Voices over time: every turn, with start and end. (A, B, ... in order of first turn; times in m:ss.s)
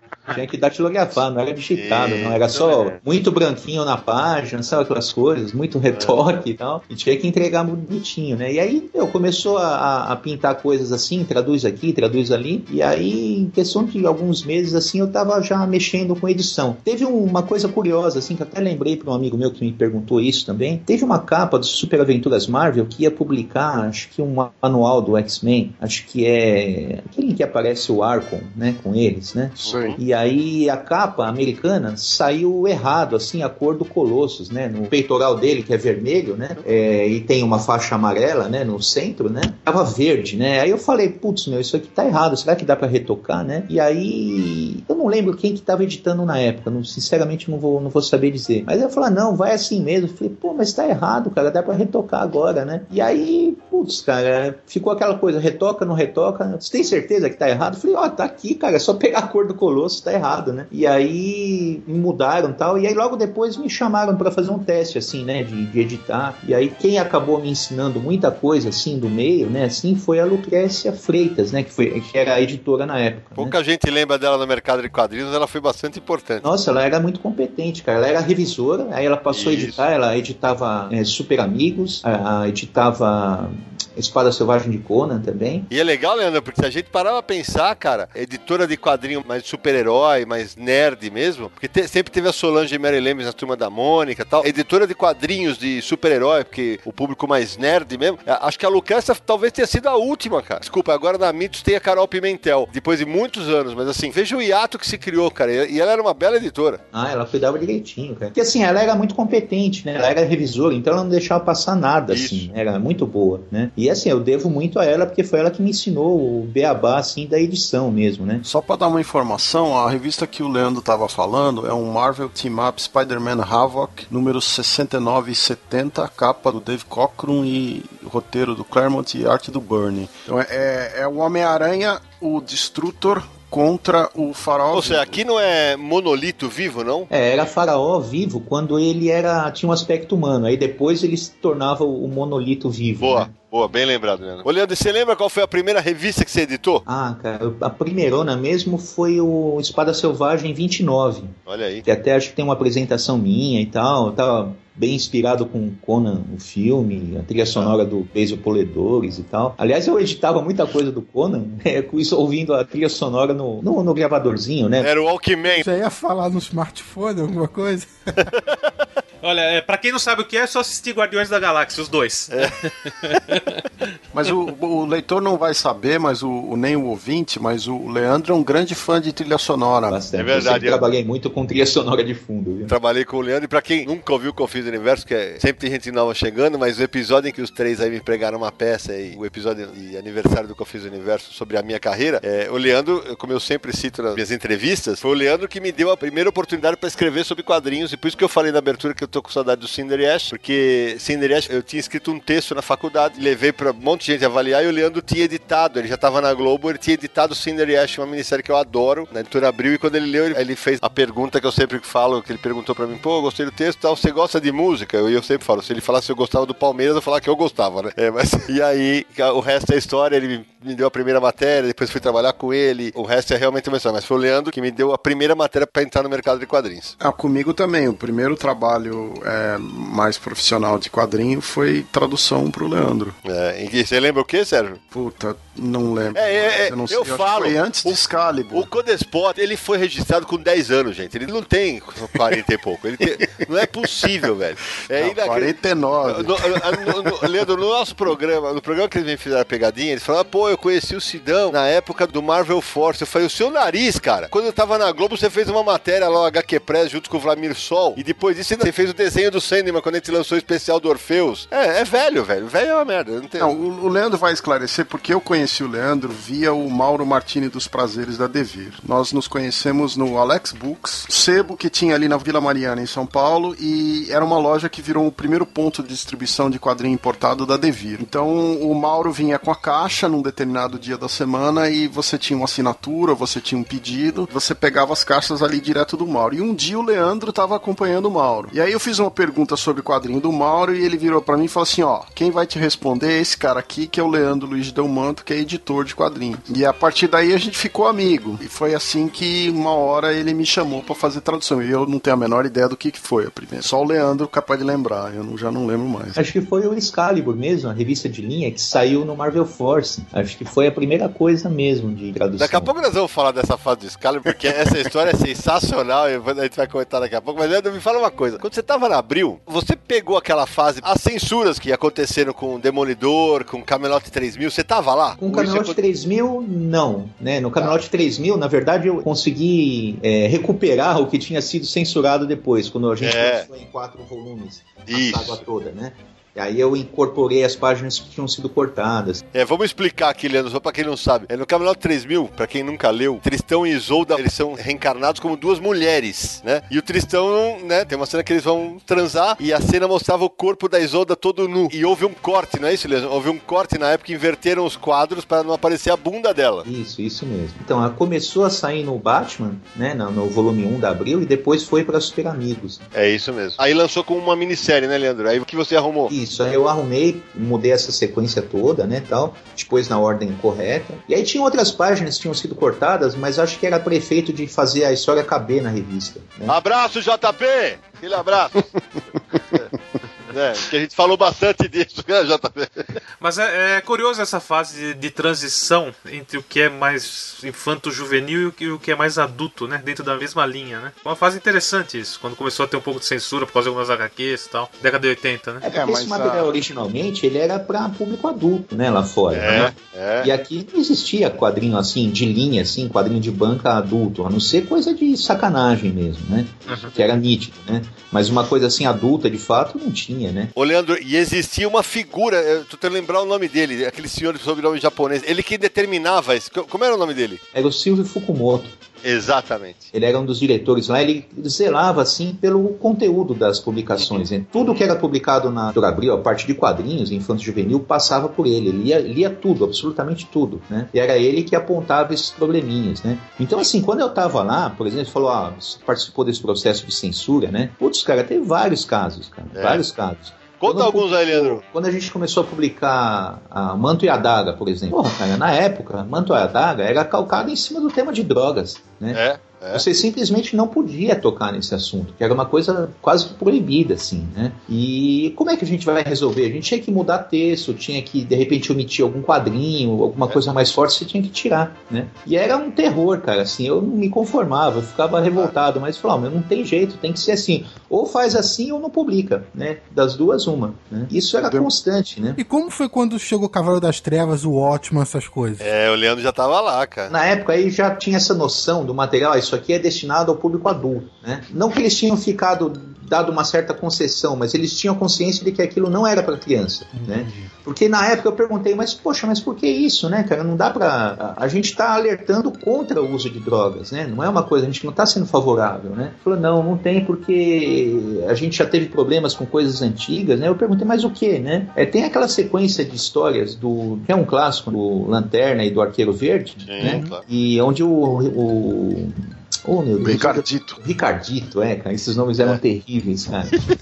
0:00.3-1:13.5 A
0:01.7-0:03.0 B
0:05.9-0:06.4 B
0:29.6-0:30.0 C
0:29.6-0:30.0 B
1:13.4-1:16.4 B
1:16.4-1:25.7 A
1:19.3-1:19.8 B
1:25.7-1:46.8 B
1:46.9-1:58.4 A
1:52.1-1:52.5 B
1:58.4-2:15.2 C
2:14.7-2:17.1 B
2:17.1-2:23.3 A
2:23.0-2:26.8 B
2:26.8-2:44.9 A
2:31.5-2:31.8 B
2:44.8-2:45.7 B
2:45.5-2:48.3 D
2:49.2-2:53.7 E
2:54.1-3:00.0 C
2:59.9-3:02.7 A
3:00.1-3:00.8 B
3:02.7-3:46.9 B
3:47.0-3:53.1 C
3:53.2-3:54.8 B
3:54.9-3:58.7 C
3:56.1-4:23.5 B
4:04.9-4:07.3 C
4:23.4-5:06.2 C
5:06.2-5:12.7 A
5:12.4-5:25.8 B
5:25.2-5:39.2 A
5:33.0-5:33.4 B
5:34.9-5:35.4 B
5:39.3-5:56.7 B
5:56.6-6:02.8 A
6:02.9-6:06.1 B
6:06.1-6:16.5 A
6:16.5-6:18.7 B
6:20.3-6:23.0 B
6:23.2-6:35.6 E
6:35.6-6:50.5 A
6:35.7-6:36.5 C
6:39.3-6:40.3 B
6:50.6-6:57.4 B
6:57.5-6:58.7 A
6:59.0-6:59.9 B
6:59.9-7:29.2 A
7:04.0-7:04.8 B
7:19.5-7:19.8 B
7:20.6-7:21.6 B
7:29.1-7:29.8 B
7:29.7-7:52.4 A
7:51.4-7:51.7 C
7:52.4-7:55.6 D
7:55.6-7:57.1 B
7:57.1-8:33.6 A
8:26.6-8:27.2 B
8:26.8-8:27.2 C
8:30.0-8:30.8 C